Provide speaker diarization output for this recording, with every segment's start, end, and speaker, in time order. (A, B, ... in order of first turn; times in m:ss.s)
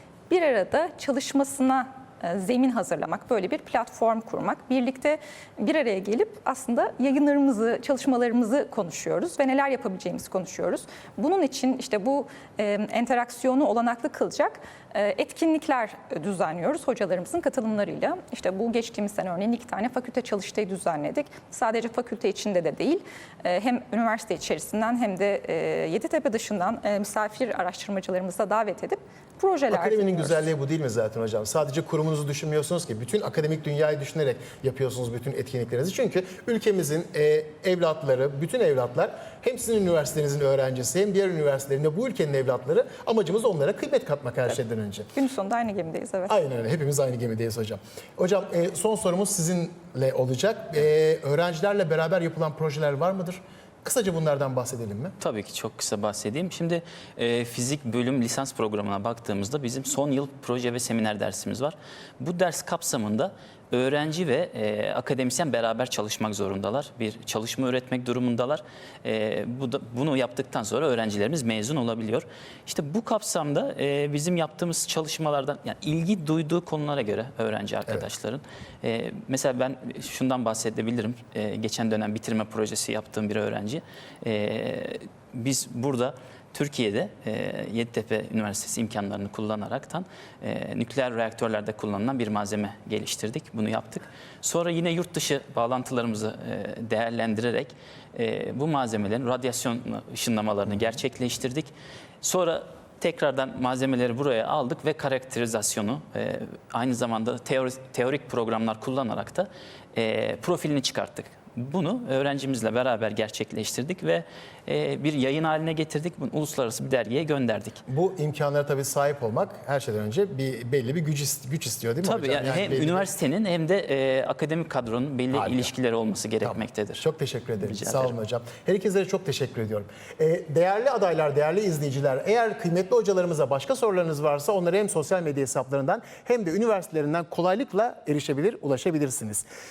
0:00.3-0:30.5 A
0:29.7-0:45.1 B
0:45.2-0:46.3 A
0:46.3-0:55.2 B
0:55.2-1:57.8 C
1:57.9-2:03.1 B
2:02.0-2:07.0 C
2:05.3-2:05.7 B
2:06.4-2:19.4 B
2:07.6-2:08.2 C